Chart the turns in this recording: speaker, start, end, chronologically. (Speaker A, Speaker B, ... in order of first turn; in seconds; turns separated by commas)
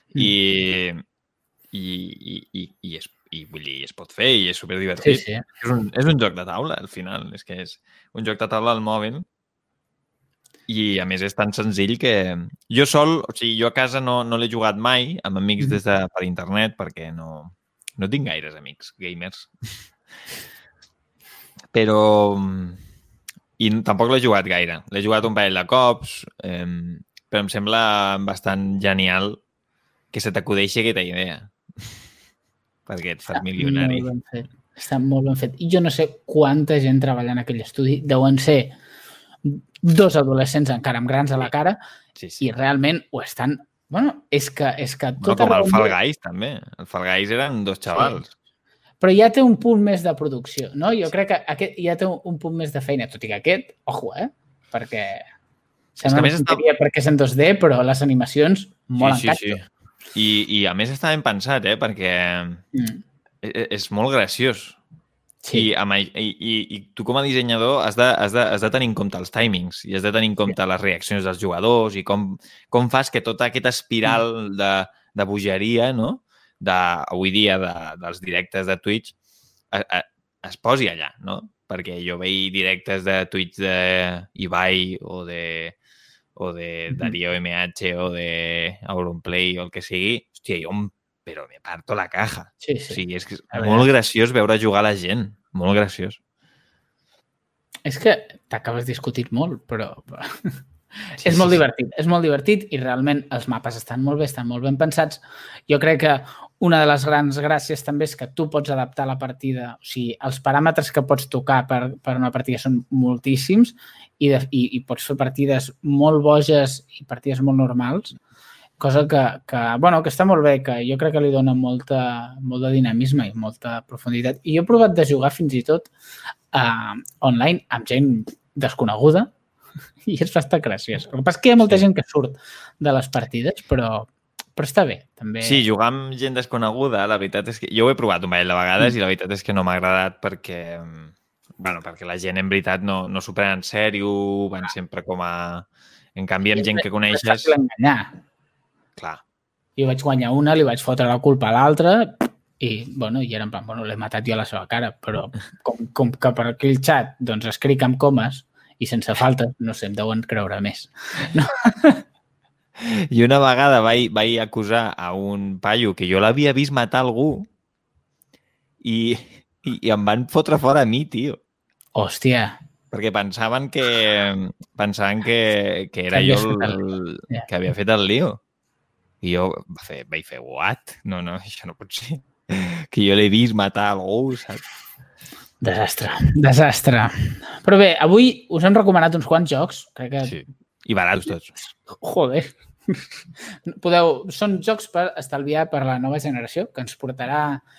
Speaker A: 0.2-1.0, Speaker A: 1.7-9.2, Speaker B: 5.0-5.4, Speaker A: 10.7-19.5, Speaker A: 21.7-22.8, Speaker A: 23.6-29.4, Speaker A: 30.1-32.0, Speaker A: 32.9-34.0, Speaker B: 33.3-38.7, Speaker B: 39.4-41.8, Speaker A: 42.1-42.4, Speaker B: 42.4-45.9, Speaker A: 45.2-48.3, Speaker B: 47.9-48.2, Speaker B: 49.0-55.2, Speaker A: 56.0-56.6, Speaker B: 56.0-59.6, Speaker A: 59.0-62.6, Speaker B: 62.7-63.0, Speaker A: 63.4-64.8, Speaker B: 65.4-65.7, Speaker A: 65.5-79.1, Speaker A: 79.7-85.8, Speaker A: 86.4-96.2, Speaker B: 86.9-87.2, Speaker B: 92.6-93.9, Speaker B: 97.8-100.5, Speaker A: 101.2-101.6, Speaker B: 101.2-118.2, Speaker B: 118.8-125.9, Speaker B: 126.5-129.3, Speaker B: 130.1-135.6, Speaker A: 135.4-147.5, Speaker B: 146.5-148.2, Speaker A: 149.0-149.2, Speaker B: 149.8-162.0, Speaker A: 162.8-167.5, Speaker A: 168.8-171.4, Speaker B: 171.9-172.6, Speaker A: 172.9-178.4, Speaker B: 176.1-176.8, Speaker A: 179.2-184.6, Speaker B: 185.6-190.4, Speaker A: 190.2-191.5, Speaker B: 191.9-197.6